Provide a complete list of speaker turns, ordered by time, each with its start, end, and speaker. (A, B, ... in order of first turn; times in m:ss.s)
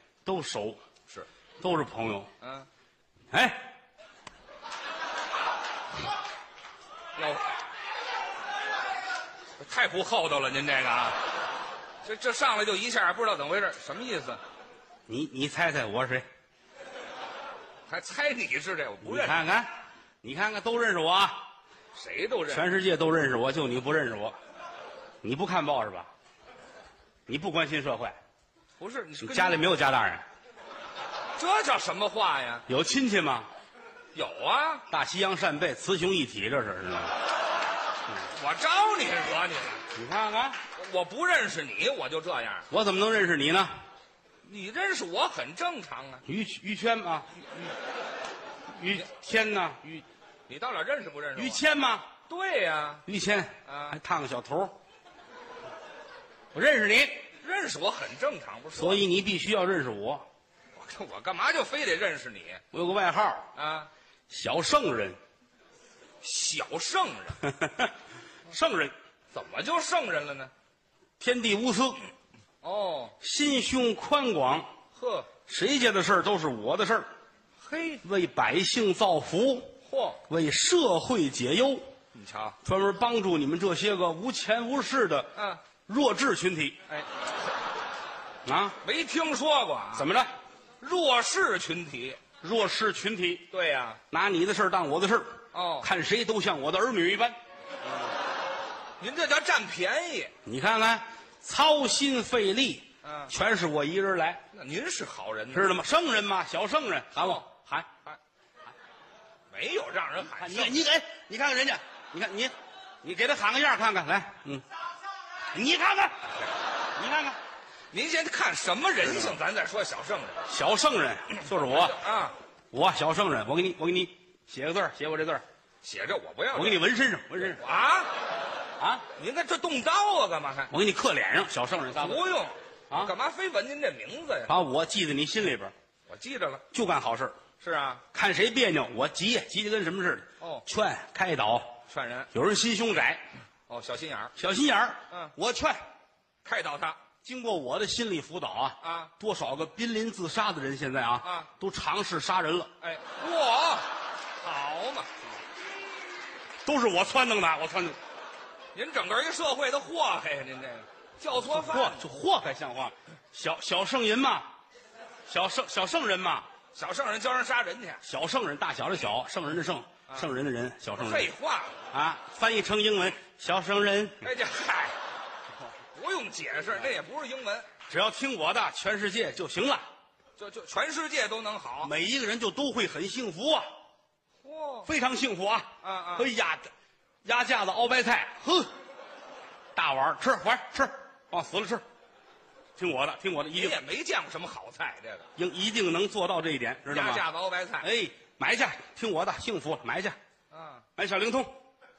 0:00.2-0:00.8 A
0:01.6-0:02.3 A
0:02.4-0:02.7 B
0:03.3-0:03.7 A
0:07.2-0:07.5 B
0:09.6-0:11.2 B
0:12.0-0:14.4 B
0:15.1-0:16.2 A
0:17.9-0:19.4 B
0:19.0-0:19.7 A
0:20.2-0:21.4 A
0:21.9-0:22.6 B
0:22.5-0:24.3 A
0:25.2-0:26.1 A
0:27.3-0:28.1 A
0:28.8-0:29.7 B
0:29.2-0:30.2 A
0:31.4-0:32.6 B
0:32.7-0:33.5 A
0:34.1-0:34.8 B
0:34.9-0:37.1 A
0:38.3-0:39.8 B
0:39.9-0:40.6 A
0:40.8-0:42.7 B
0:42.7-0:43.7 A
0:44.4-0:46.2 B
0:46.2-0:47.3 A
0:48.8-0:50.0 A
0:50.5-0:51.6 B
0:51.4-0:52.1 A
0:52.3-0:53.0 B
0:53.0-0:54.7 A
0:53.6-0:54.0 B
0:56.5-0:57.2 A
0:57.4-0:59.0 B
0:58.7-1:00.2 A
1:00.8-1:02.6 B
1:02.7-1:03.5 A
1:03.5-1:03.9 B
1:04.3-1:05.2 A
1:06.2-1:07.4 B
1:07.4-1:07.9 A
1:08.5-1:08.9 A
1:09.3-1:10.5 B
1:11.2-1:12.0 A
1:12.6-1:13.1 B
1:13.2-1:14.7 A
1:14.9-1:15.3 B
1:15.4-1:17.1 A
1:17.6-1:18.0 B
1:18.0-1:19.8 A
1:19.9-1:20.2 B
1:20.3-1:21.9 A
1:22.1-1:22.6 B
1:22.6-1:25.3 A
1:25.9-1:26.8 A
1:28.4-1:28.8 A
1:28.8-1:30.1 B
1:29.9-1:30.3 A
1:30.8-1:32.2 B
1:32.4-1:33.5 A
1:33.5-1:34.0 B
1:34.1-1:37.4 A
1:35.5-1:35.9 B
1:39.0-1:40.3 B
1:40.4-1:44.4 A
1:43.0-1:43.3 B
1:44.5-1:45.8 B
1:45.5-1:47.9 A
1:47.2-1:47.4 B
1:49.5-1:50.8 B
1:50.3-1:54.6 A
1:55.5-1:56.3 A
1:57.0-1:57.4 A
1:57.9-2:00.4 B
1:59.1-1:59.3 A
2:00.5-2:02.0 A
2:01.5-2:02.3 B
2:02.7-2:05.4 A
2:05.8-2:06.8 B
2:06.5-2:07.6 A
2:07.4-2:08.1 B
2:08.8-2:09.0 A
2:09.2-2:10.7 B
2:10.7-2:12.2 A
2:11.9-2:14.5 B
2:14.5-2:15.7 A
2:16.1-2:16.6 B
2:16.7-2:17.4 A
2:17.6-2:18.0 B
2:18.1-2:21.8 A
2:21.9-2:22.3 B
2:22.3-2:23.2 A
2:23.7-2:24.3 B
2:24.4-2:25.8 A
2:26.4-2:27.0 B
2:27.2-2:32.7 A
2:28.8-2:29.1 B
2:31.2-2:31.5 B
2:32.8-2:33.9 B
2:34.4-2:35.1 B
2:36.6-2:38.0 A
2:38.7-2:42.0 B
2:41.4-2:44.5 A
2:45.3-2:46.5 A
2:46.7-2:48.0 B
2:48.0-2:51.3 A
2:50.9-2:51.8 B
2:51.9-2:54.3 A
2:54.2-2:54.9 B
2:55.9-2:57.7 B
2:57.9-2:59.8 A
3:00.4-3:01.9 B
3:01.8-3:03.7 A
3:04.4-3:04.9 B
3:04.9-3:06.7 A
3:05.8-3:06.3 B
3:07.2-3:08.7 A
3:09.7-3:11.8 A
3:12.8-3:13.8 A
3:13.5-3:15.3 B
3:15.4-3:17.3 A
3:16.9-3:17.9 B
3:17.8-3:20.2 A
3:20.5-3:20.8 B
3:21.0-3:21.5 A